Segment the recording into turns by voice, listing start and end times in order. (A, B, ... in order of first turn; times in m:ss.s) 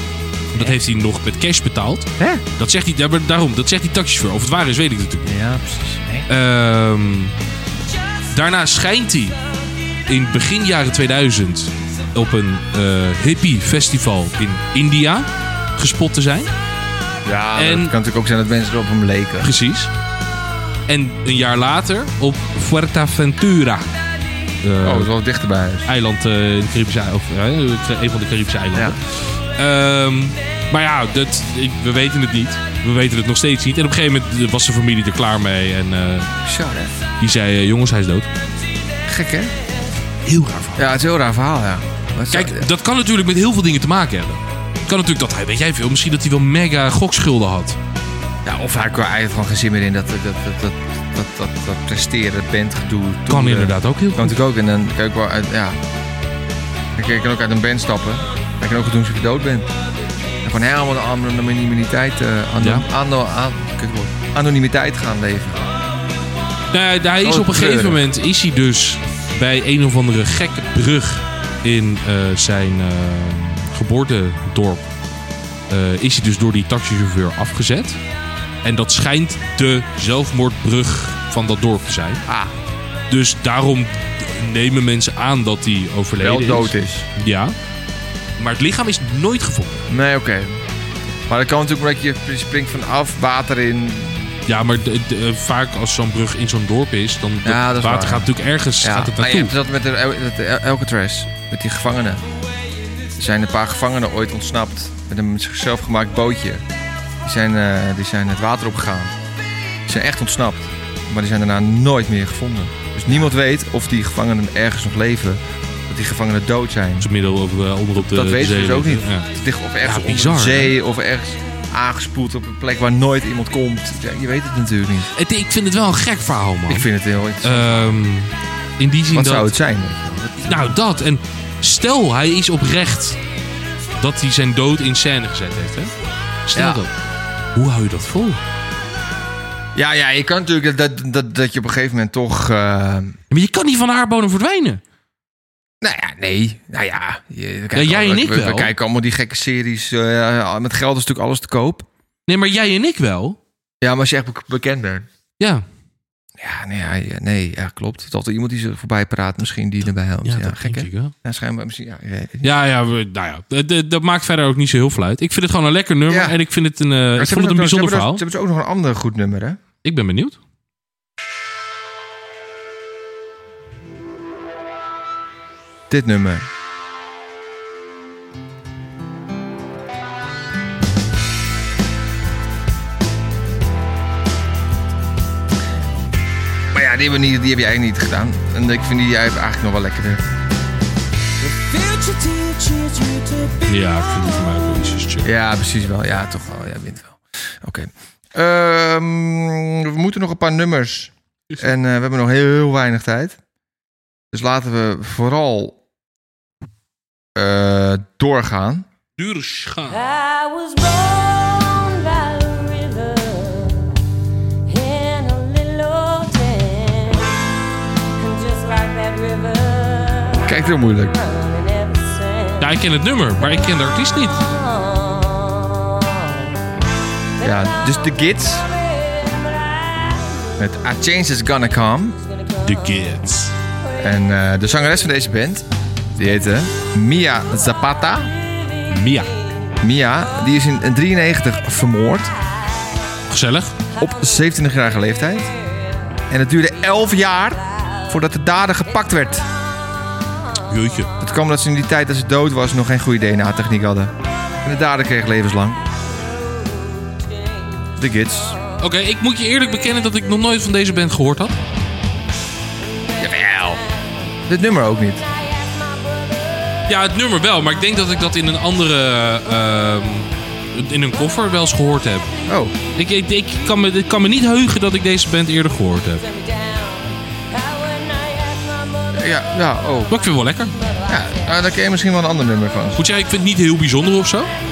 0:00.5-0:05.3 A
0:02.2-0:02.4 B
0:05.2-0:06.3 B
0:06.3-0:07.4 A
0:08.3-0:09.4 A
0:10.1-0:16.5 A
0:17.2-0:19.5 B
0:17.6-0:17.9 A
0:19.4-0:19.9 A
0:20.9-0:23.9 A
0:24.6-0:25.1 A
0:24.8-0:25.9 B
0:25.8-0:36.3 A
0:36.4-0:36.9 B
0:37.2-0:38.3 A
0:39.0-0:39.5 B
0:40.2-0:40.8 A
0:40.8-0:42.6 B
0:42.3-0:47.8 A
0:48.4-0:55.8 B
0:53.3-0:54.4 A
0:57.0-0:59.7 B
1:00.4-1:05.7 B
1:02.6-1:02.8 A
1:06.7-1:14.9 A
1:07.2-1:08.0 B
1:15.7-1:18.0 A
1:18.6-1:22.2 A
1:22.3-1:22.5 B
1:23.1-1:27.5 A
1:26.2-1:27.1 B
1:28.4-1:29.8 A
1:29.9-1:30.6 B
1:31.3-1:34.3 B
1:34.5-1:39.5 A
1:37.4-1:38.3 B
1:38.8-1:42.2 B
1:43.2-1:46.6 B
1:47.2-1:49.1 B
1:49.8-1:57.1 B
1:57.0-1:59.3 A
1:58.0-2:05.1 B
1:59.8-2:00.7 A
2:05.1-2:06.9 A
2:06.7-2:08.0 B
2:07.4-2:09.5 A
2:09.1-2:10.8 B
2:10.5-2:13.2 A
2:14.0-2:15.9 A
2:16.4-2:16.9 A
2:16.5-2:16.8 B
2:17.5-2:18.4 A
2:19.7-2:23.2 B
2:23.3-2:24.8 A
2:25.8-2:31.9 B
2:27.7-2:28.7 A
2:32.3-2:33.4 A
2:33.8-2:35.1 B
2:36.4-2:42.5 B
2:40.2-2:41.1 A
2:42.4-2:48.2 A
2:46.1-2:46.4 B
2:47.2-2:49.6 B
2:49.8-2:50.4 A
2:55.9-2:56.5 B
3:06.7-3:10.2 B
3:11.7-3:13.6 C
3:13.6-3:15.3 A
3:15.2-3:23.4 B
3:24.3-3:25.8 B
3:27.3-3:28.9 B
3:29.2-3:30.0 A
3:29.9-3:33.9 C
3:34.7-3:37.4 C
3:38.2-3:40.5 C
3:40.4-3:41.1 B
3:41.1-3:42.7 C
3:42.6-3:44.5 A
3:44.5-3:46.3 C
3:47.4-3:48.7 B
3:49.0-3:50.4 C
3:50.6-3:52.2 B
3:52.6-3:53.5 A
3:54.0-3:58.3 B
3:58.9-3:59.3 A
3:59.8-4:02.3 B
4:03.3-4:03.8 A
4:04.0-4:05.5 B
4:06.3-4:09.5 B
4:10.7-4:11.1 A
4:11.2-4:15.8 B
4:18.0-4:18.6 B
4:18.8-4:21.6 A
4:23.2-4:23.8 B
4:24.5-4:25.3 B
4:25.6-4:26.8 C
4:26.9-4:32.3 A
4:32.5-4:32.7 B
4:32.9-4:36.2 A
4:36.3-4:39.2 C
4:39.1-4:40.1 B
4:40.1-4:40.8 A
4:41.1-4:43.0 B
4:43.0-4:44.5 A